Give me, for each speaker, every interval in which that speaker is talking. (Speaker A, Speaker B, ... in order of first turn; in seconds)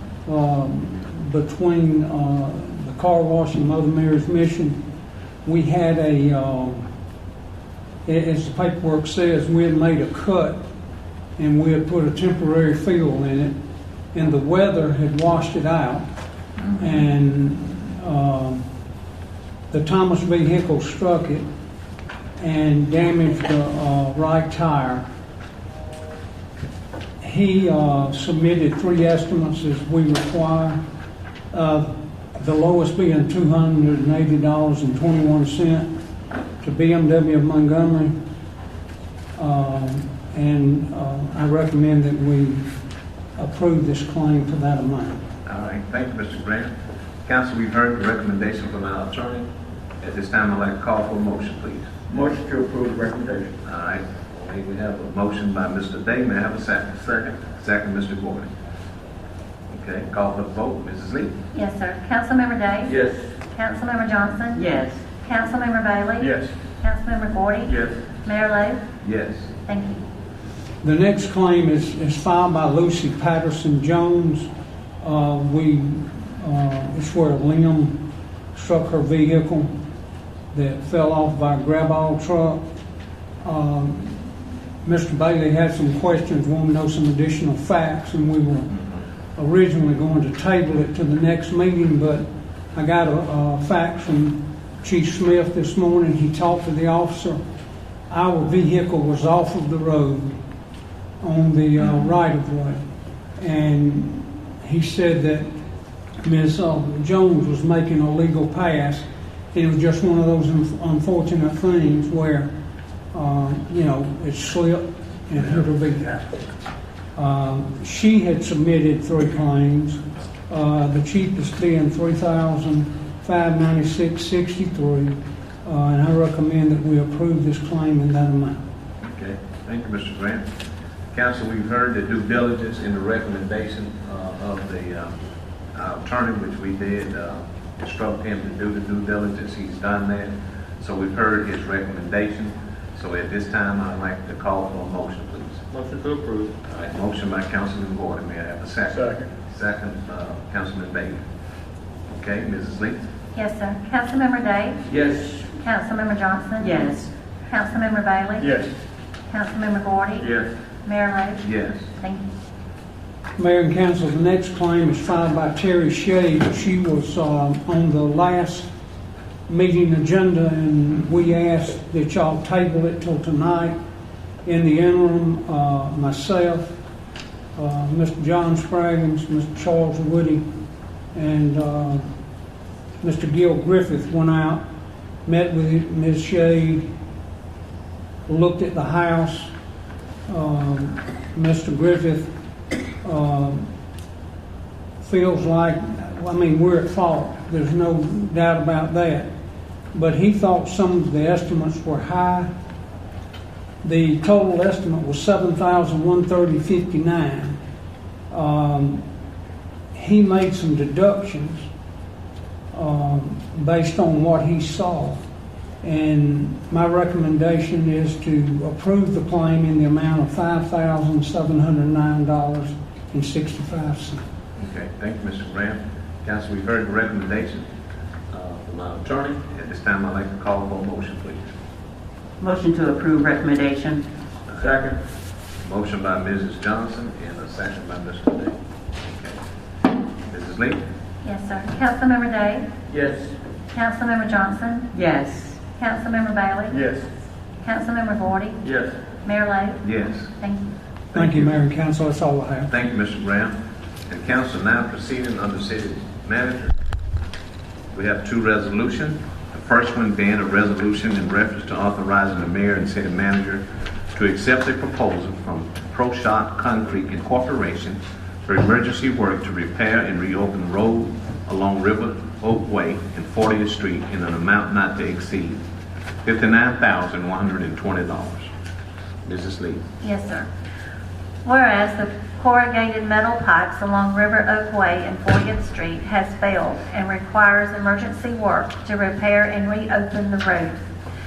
Speaker A: 0.3-4.8, 5.5-6.9, 8.1-10.6, 11.4-13.5, 14.1-16.1, 16.8-18.6, 19.7-21.5, 22.4-25.0, 27.2-30.8, 31.5-35.9, 36.6-38.1, 39.4-42.8, 43.4-45.2, 70.8-74.5, 75.0-78.0, 78.5-79.7, 80.5-82.6, 83.4-88.7, 89.4-97.4, 98.1-100.4, 101.2-102.8, 103.4-105.5, 106.2-112.5, 113.1-116.3, 117.2-128.6, 163.4-168.7, 169.5-173.8, 174.4-176.8, 177.6-180.4, 181.2-182.1, 183.0-184.6, 185.3-186.9, 188.3-189.5, 190.3-192.3, 193.0-193.7, 195.0-199.3, 199.9-202.5, 203.8-207.6, 208.3-209.0, 209.9-211.7, 212.7-215.2, 215.8-224.2, 251.1-252.8
Speaker B: 45.5-46.7, 47.3-49.5, 50.0-51.9, 53.6-58.5, 59.7-61.3, 69.0-69.5, 129.0-130.4, 131.1-135.2, 135.7-145.6, 146.7-151.2, 152.1-153.0, 161.4-161.9, 224.6-227.7, 228.3-231.4, 235.6-239.4, 240.3-240.8, 249.8-250.3, 251.1-251.6, 252.7-253.5, 254.1-256.7, 257.9-275.6, 276.2-278.5, 279.2-279.8
Speaker C: 52.1-53.6, 57.0-57.4, 62.9-63.3, 66.2-66.5, 67.7-68.0, 145.7-146.5, 148.9-149.3, 154.9-155.5, 158.4-158.7, 160.2-160.5, 234.6-235.0, 242.9-243.3, 246.7-247.1, 248.6-248.9
Speaker D: 61.5-63.0, 63.5-68.8, 69.7-70.0, 153.3-154.8, 155.6-156.9, 157.4-158.6, 159.3-160.3, 160.8-161.5, 162.0-162.3, 241.2-242.7, 243.7-244.9, 245.8-246.8, 247.6-248.7, 249.2-249.9, 250.4-250.7, 280.0-280.5, 281.4-290.8
Speaker E: 64.5-65.0, 156.6-157.1, 232.4-234.1, 244.9-245.6